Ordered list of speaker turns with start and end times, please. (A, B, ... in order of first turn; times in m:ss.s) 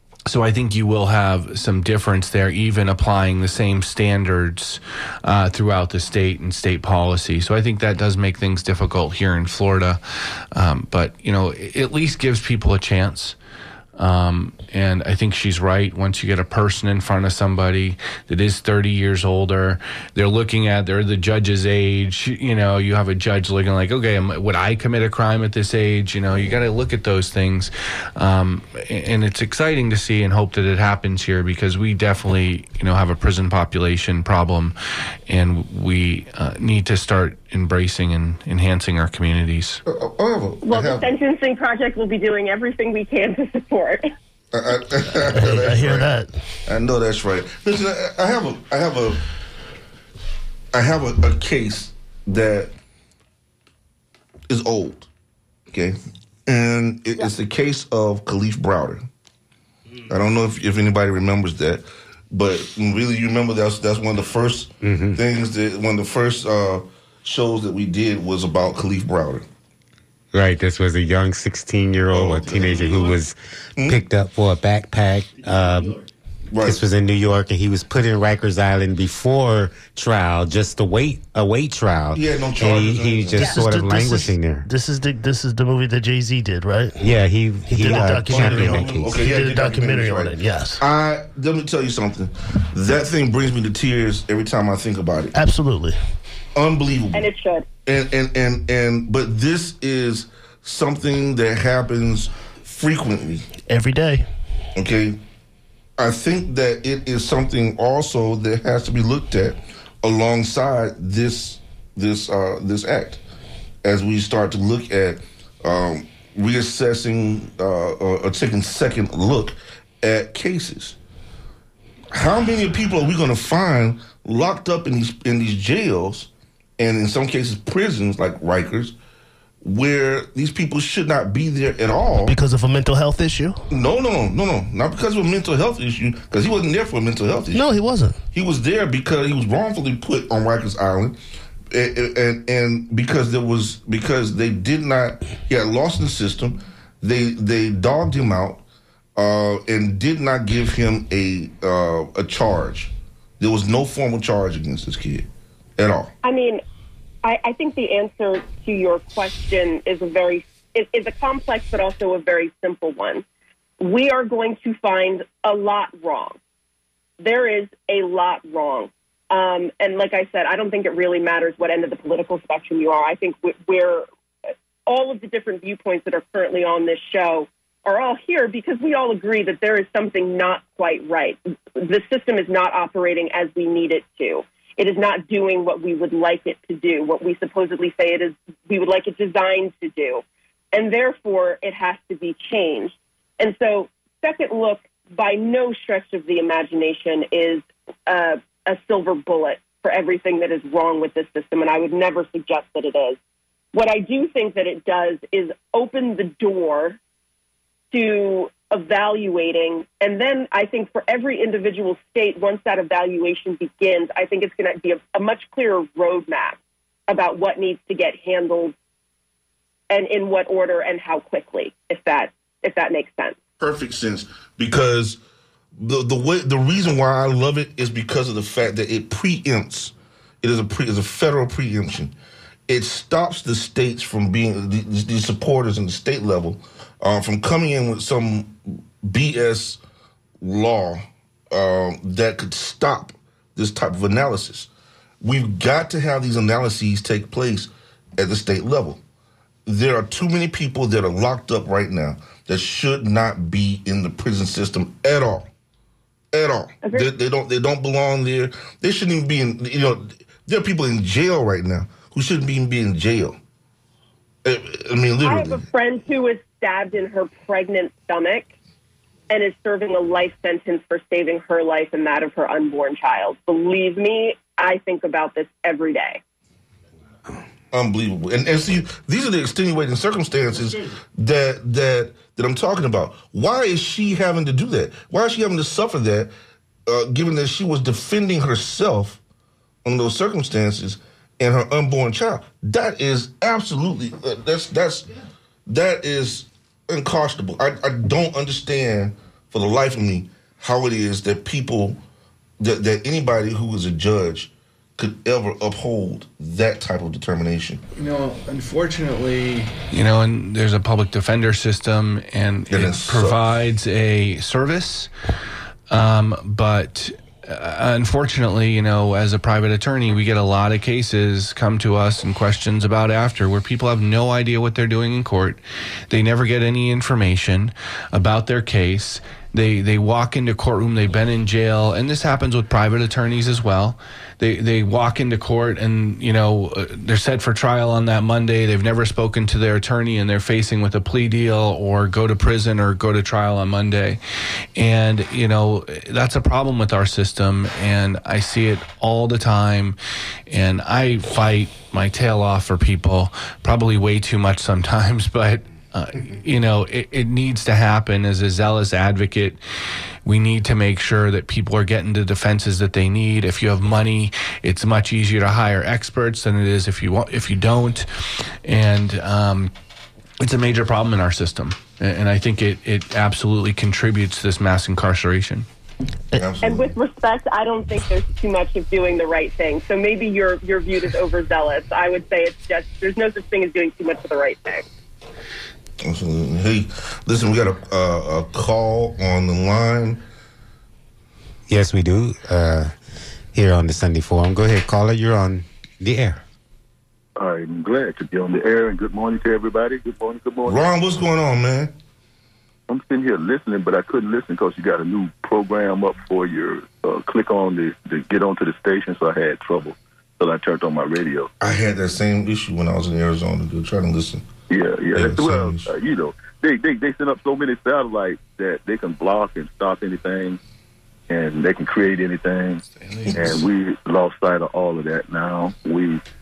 0:00.3-0:10.0 A
0:10.5-0:13.4 A
0:14.0-0:34.7 A
0:35.3-0:39.8 A
0:39.9-0:41.0 B
0:40.7-0:44.1 C
0:44.5-0:46.1 B
0:45.1-0:46.3 D
0:46.7-0:49.2 B
0:50.7-0:52.7 B
0:54.5-0:55.1 B
0:55.7-0:59.1 B
1:00.1-1:09.4 B
1:04.8-1:05.2 E
1:10.3-1:16.0 E
1:12.1-1:13.2 B
1:13.8-1:14.0 B
1:15.4-1:16.0 D
1:16.5-1:16.9 B
1:16.6-1:24.7 E
1:22.1-1:23.6 B
1:23.4-1:30.8 D
1:27.0-1:29.2 E
1:28.0-1:35.3 B
1:35.3-1:36.0 D
1:36.6-1:37.3 B
1:37.1-1:37.7 C
1:37.9-1:43.5 B
1:43.7-1:44.2 D
1:44.8-1:45.2 B
1:46.0-1:53.2 B
1:53.8-2:01.0 B
2:02.1-2:09.0 B
2:09.6-2:12.4 B
2:12.2-2:13.6 D
2:13.7-2:17.6 B
2:17.5-2:18.2 D
2:18.3-2:21.2 B
2:21.7-2:28.6 B
2:29.2-2:36.1 B
2:36.2-2:36.6 C
2:37.2-2:43.2 C
2:43.8-2:46.4 C
2:47.2-2:54.1 C
2:54.9-3:23.2 C
3:23.7-3:27.0 C
3:27.9-3:38.8 C
3:39.9-3:43.4 C
3:43.6-3:45.2 B
3:45.8-3:52.2 B
3:52.7-3:59.8 B
4:00.4-4:04.7 B
4:05.2-4:09.0 B
4:09.7-4:15.5 B
4:16.3-4:23.4 B
4:24.4-4:25.6 B
4:25.2-4:28.5 C
4:29.3-4:36.2 C
4:37.7-4:46.3 B
4:46.9-4:49.2 B
4:49.8-4:55.1 B
4:55.7-5:02.0 B
5:02.6-5:07.8 B
5:08.0-5:15.1 A
5:12.7-5:13.4 B
5:15.9-5:44.2 A
5:44.8-5:50.0 A
5:50.5-5:59.6 A
6:00.2-6:09.7 A
6:10.4-6:15.6 A
6:16.4-6:16.9 B
6:16.6-6:24.9 C
6:26.0-6:30.2 B
6:31.7-6:32.9 E
6:33.6-6:36.4 E
6:37.4-6:40.8 F
6:40.6-6:41.9 B
6:42.9-6:51.5 F
6:51.6-6:54.5 B
6:54.7-7:00.6 F
6:55.2-6:55.9 B
7:01.3-7:06.2 F
7:03.3-7:03.6 B